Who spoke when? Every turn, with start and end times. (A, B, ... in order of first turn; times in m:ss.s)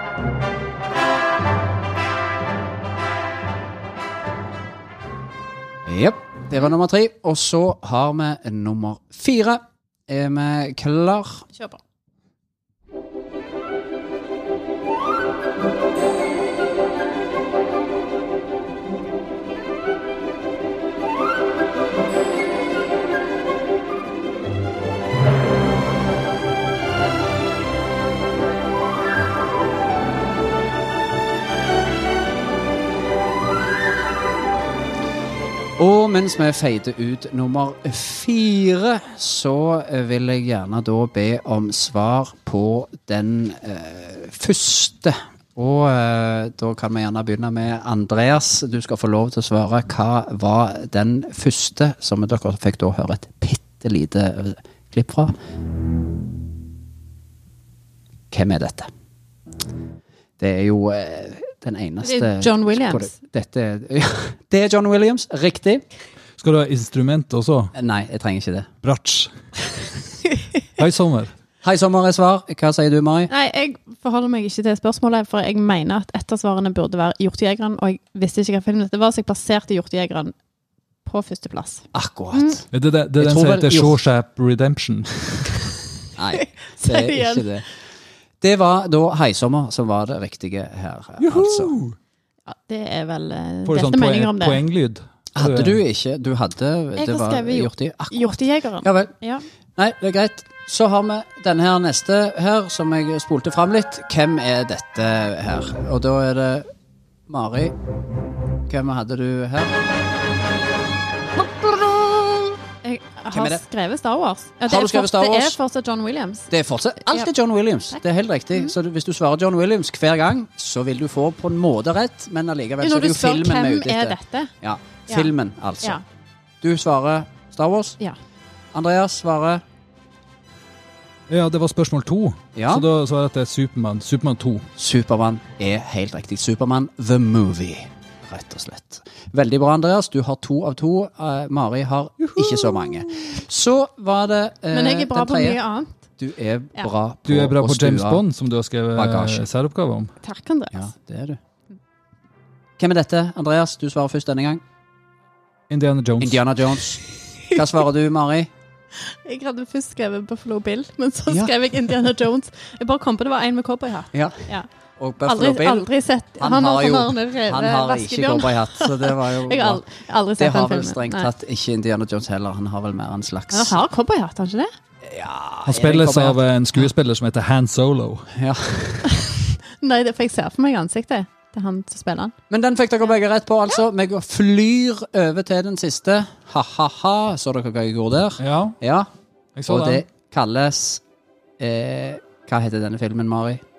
0:05.9-0:11.5 A
0:11.5-0:11.8 B
0:35.8-0:55.3 A
0:58.3-0:58.9 A
1:00.4-1:05.8 A
1:02.0-1:03.1 B
1:06.4-1:07.7 C
1:07.8-1:08.7 A
1:08.8-1:09.3 C
1:10.8-1:11.3 C
1:11.6-1:13.3 A
1:13.3-1:20.3 B
1:21.0-1:22.6 B
1:21.9-1:22.6 A
1:22.7-1:25.7 C
1:23.2-1:24.0 A
1:26.2-1:27.7 A
1:26.4-1:27.5 B
1:28.4-1:31.8 A
1:31.2-1:32.0 C
1:32.5-1:34.6 B
1:33.7-1:35.8 C
1:35.4-1:39.1 A
1:37.0-1:39.4 B
1:39.8-1:46.7 A
1:47.3-1:47.8 A
1:48.7-1:49.8 A
1:51.4-1:52.6 A
1:52.8-1:56.5 B
1:53.3-1:53.6 A
1:54.7-1:55.6 A
1:56.5-2:06.0 A
2:02.8-2:04.5 B
2:06.6-2:08.0 A
2:08.7-2:09.6 A
2:11.3-2:14.7 C
2:12.6-2:12.9 A
2:14.8-2:25.6 A
2:22.4-2:23.1 C
2:24.7-2:26.0 B
2:26.2-2:28.2 A
2:27.3-2:30.1 C
2:29.0-2:29.5 A
2:30.2-2:30.9 B
2:30.7-2:31.4 A
2:32.8-2:34.6 A
2:35.7-2:36.4 C
2:36.2-2:38.5 A
2:37.3-2:37.6 B
2:39.0-2:44.7 B
2:44.1-2:49.9 A
2:45.2-2:51.3 B
2:50.4-2:53.8 A
2:53.5-2:54.7 B
2:55.0-2:56.9 A
2:55.7-2:58.3 C
2:58.4-2:59.1 A
2:59.1-3:02.3 B
3:02.5-3:09.1 A
3:08.4-3:08.8 C
3:09.6-3:10.0 C
3:09.7-3:11.0 A
3:11.6-3:13.6 A